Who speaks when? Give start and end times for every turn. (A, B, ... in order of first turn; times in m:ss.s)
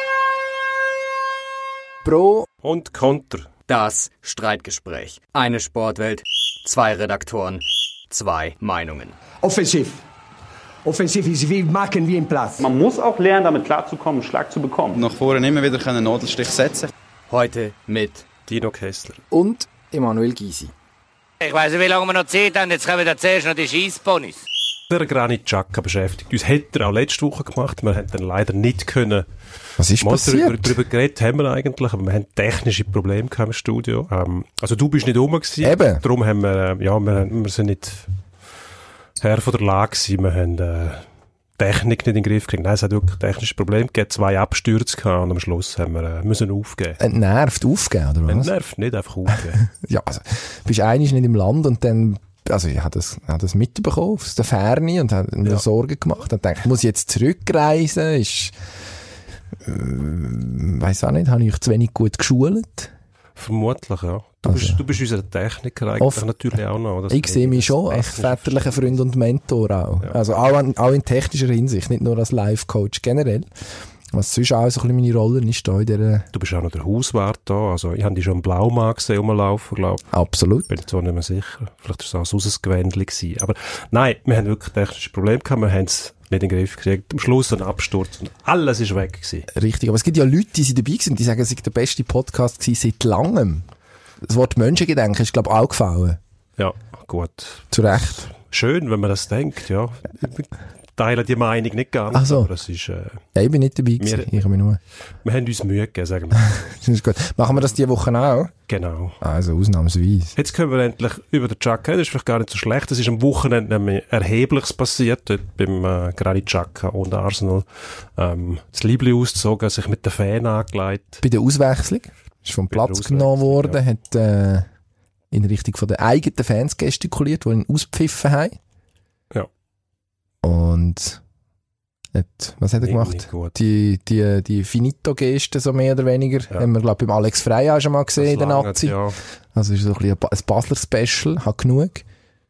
0:02.0-0:02.5 A
0:02.6-0:03.5 B
0:03.7-0:09.2 C
0:09.4-0:10.0 D
0:10.8-0:12.7 D
0:12.6-0:15.0 E
0:15.0-0:16.9 F
0:17.3-0:18.2 C
0:18.5-0:19.2 B
0:19.3-0:20.7 A
0:21.4-0:24.4 G
0:24.9-0:29.3 B
0:29.8-0:30.8 A
0:30.0-0:38.1 B
0:35.6-0:36.0 A
0:39.2-0:41.1 B
0:41.6-0:47.0 B
0:47.0-0:48.5 A
0:48.3-0:49.6 B
0:49.6-0:58.5 A
0:59.6-1:02.9 A
1:03.4-1:09.0 B
1:04.4-1:04.8 A
1:06.0-1:06.3 A
1:07.1-1:13.5 A
1:14.1-1:16.3 A
1:16.3-1:20.1 B
1:20.1-1:20.7 A
1:20.7-1:29.5 B
1:29.5-1:33.7 A
1:34.2-1:36.2 A
1:36.6-1:43.2 B
1:37.7-1:38.3 A
1:42.1-1:42.5 A
1:43.3-1:44.8 A
1:44.0-1:44.4 B
1:45.2-1:46.7 B
1:46.4-1:48.5 A
1:48.7-1:49.2 B
1:49.2-1:50.4 A
1:50.4-2:01.2 B
2:01.2-2:04.7 A
2:02.7-2:03.8 B
2:05.3-2:08.6 A
2:10.4-2:11.2 A
2:12.1-2:19.0 A
2:12.8-2:13.6 B
2:18.2-2:19.2 B
2:19.5-2:22.0 A